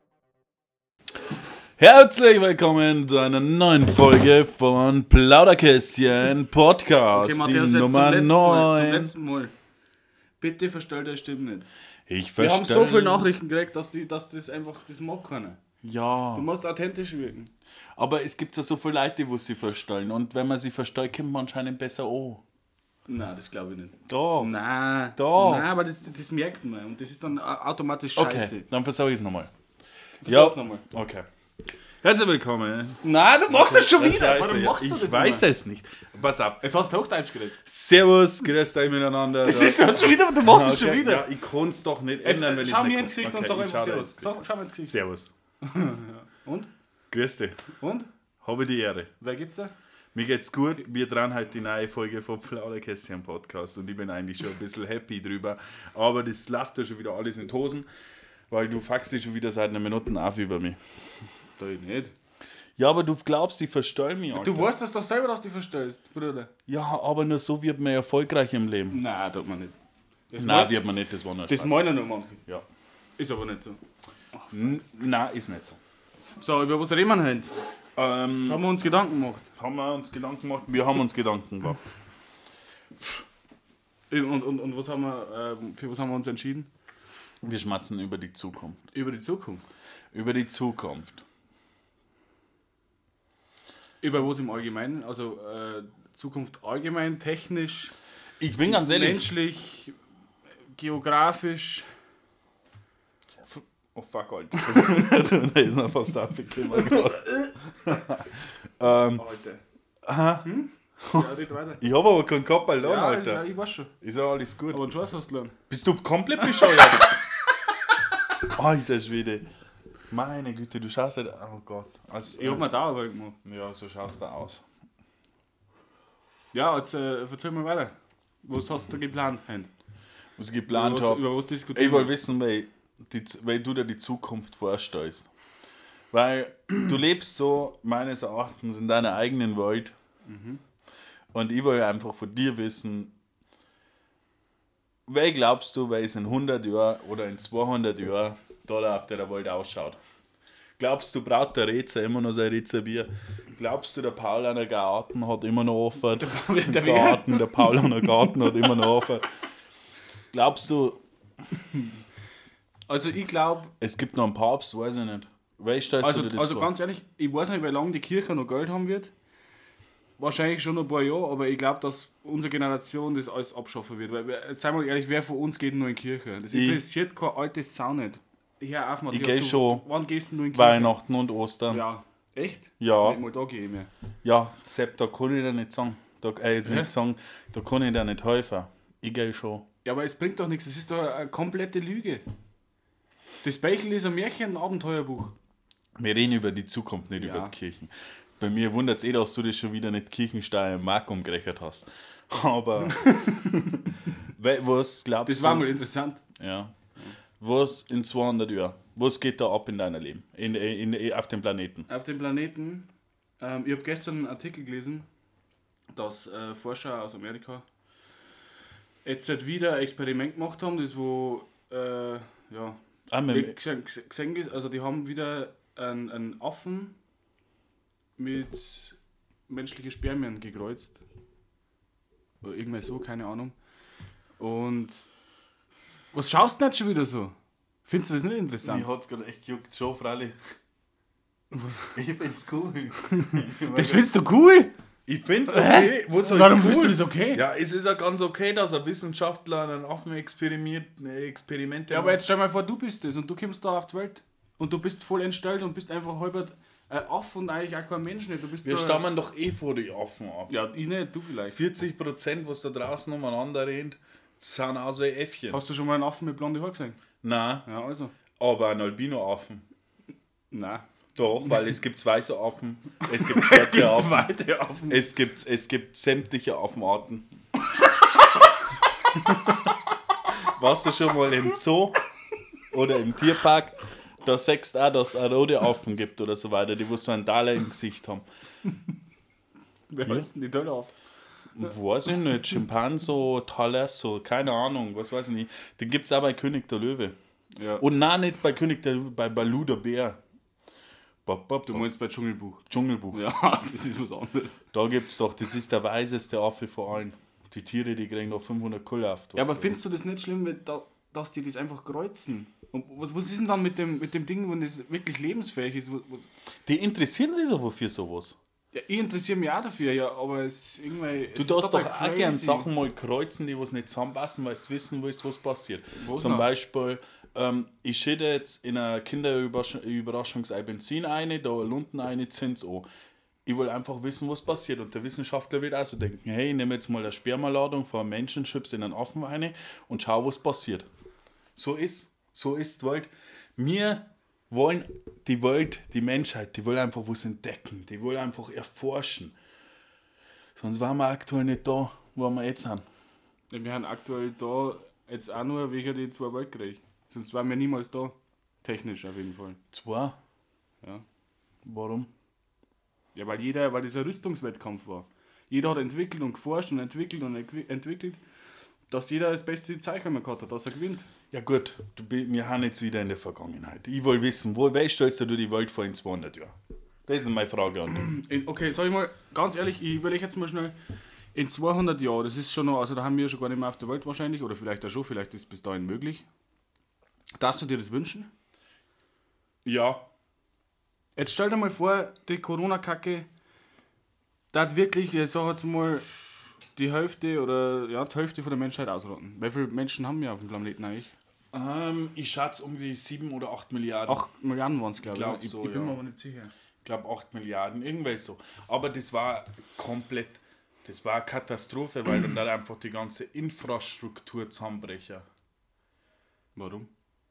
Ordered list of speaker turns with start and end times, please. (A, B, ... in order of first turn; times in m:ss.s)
0:01.8-0:09.1 A
0:07.1-0:09.5 B
0:10.4-0:11.7 B
0:12.1-0:13.3 A
0:12.4-0:15.6 B
0:15.8-0:16.5 A
0:16.4-0:17.5 B
0:18.0-0:22.4 A
0:23.1-0:28.6 B
0:24.1-0:24.5 A
0:25.2-0:25.7 A
0:28.2-0:29.5 A
0:30.2-0:30.8 B
0:30.2-0:31.3 A
0:32.0-0:36.7 A
0:33.0-0:35.5 B
0:36.6-0:37.6 B
0:37.6-0:44.3 A
0:39.4-0:41.2 B
0:42.2-0:45.0 B
0:44.9-0:45.3 A
0:45.6-0:46.7 B
0:47.1-0:47.6 A
0:47.8-0:48.1 B
0:48.4-0:49.1 A
0:49.2-0:49.7 B
0:50.1-0:57.9 A
0:58.5-1:00.8 A
1:01.6-1:02.1 B
1:02.8-1:04.7 A
1:04.3-1:06.5 B
1:06.7-1:09.0 A
1:08.9-1:09.7 B
1:10.3-1:10.8 B
1:10.4-1:11.9 A
1:11.5-1:12.4 B
1:13.2-1:13.8 B
1:14.5-1:15.8 A
1:16.4-1:17.6 B
1:18.0-1:18.6 A
1:18.4-1:19.5 B
1:19.6-1:21.8 A
1:24.1-1:26.7 B
1:27.4-1:28.8 A
1:28.9-1:29.6 B
1:30.1-1:31.2 A
1:34.0-1:37.9 B
1:38.4-1:39.3 A
1:38.6-1:40.0 B
1:40.7-1:41.9 B
1:43.4-1:49.2 A
1:49.1-1:49.6 B
1:50.0-1:50.5 A
1:50.4-1:51.8 B
1:51.0-1:54.8 A
1:52.8-1:53.9 B
1:54.7-1:55.6 B
1:55.7-1:57.2 A
1:56.4-1:57.0 B
1:58.4-1:59.5 A
2:00.1-2:02.6 A
2:02.3-2:03.4 B
2:03.4-2:04.6 A
2:06.5-2:09.7 B
2:10.4-2:15.3 A
2:10.7-2:12.1 B
2:16.1-2:20.0 A
2:20.2-2:20.6 B
2:21.3-2:23.2 A
2:25.1-2:30.0 A
2:30.8-2:39.3 A
2:36.2-2:37.8 B
2:40.3-2:41.0 A
2:42.9-2:43.7 B
2:43.8-2:46.7 A
2:46.0-2:49.1 B
2:50.2-3:01.0 B
2:56.5-2:56.8 A
2:59.1-2:59.8 A
3:00.5-3:01.8 A
3:01.7-3:03.9 B
3:02.8-3:03.2 A
3:04.2-3:09.7 A
3:09.8-3:12.2 B
3:13.4-3:15.4 B
3:16.0-3:25.7 A
3:17.2-3:17.5 B
3:22.9-3:23.4 B
3:25.3-3:26.2 B
3:26.4-3:26.8 A
3:27.4-3:31.9 A
3:31.9-3:32.9 B
3:33.4-3:35.1 B
3:35.9-3:37.6 B
3:39.0-3:47.0 B
3:43.1-3:43.6 A
3:48.2-3:49.0 B
3:49.5-3:51.0 B
3:52.4-3:53.6 B
3:54.4-3:55.1 B
3:56.1-3:57.4 B
3:57.9-3:58.9 B
3:58.6-4:00.4 A
4:01.5-4:01.9 B
4:01.9-4:04.1 A
4:03.1-4:04.7 B
4:05.1-4:12.2 A
4:05.5-4:07.4 B
4:11.9-4:19.0 B
4:18.6-4:20.5 A
4:20.5-4:21.6 B
4:21.5-4:25.6 A
4:25.5-4:27.0 B
4:27.2-4:27.7 A
4:27.6-4:28.1 B
4:28.4-4:29.6 A
4:30.5-4:30.8 B
4:31.2-4:34.3 A
4:33.1-4:35.0 B
4:34.9-4:37.3 A
4:40.4-4:42.0 A
4:42.7-4:48.2 A
4:49.9-4:50.9 B
4:51.6-4:57.2 A
4:57.6-4:57.8 B
4:57.8-5:00.2 A
5:01.2-5:01.9 A
5:01.7-5:04.6 B
5:02.7-5:03.2 A
5:04.7-5:09.8 A
5:09.4-5:16.3 B
5:16.7-5:18.4 A
5:18.7-5:22.7 B
5:21.4-5:32.9 A
5:26.0-5:26.5 B
5:33.5-5:40.9 A
5:41.6-5:49.4 A
5:50.6-5:52.8 A
5:53.5-5:59.6 B
5:59.7-6:00.2 A
6:01.6-6:02.1 A
6:03.2-6:08.2 B
6:08.9-6:11.1 B
6:11.3-6:16.6 A
6:17.1-6:18.1 A
6:17.9-6:20.8 B
6:21.3-6:26.2 B
6:27.4-6:28.3 B
6:29.6-6:30.1 A
6:31.2-6:33.3 B
6:34.5-6:36.1 B
6:36.8-6:41.1 B
6:41.5-6:44.2 A
6:44.1-6:46.5 B
6:45.0-6:46.0 A
6:46.8-6:55.3 A
6:56.6-6:56.9 B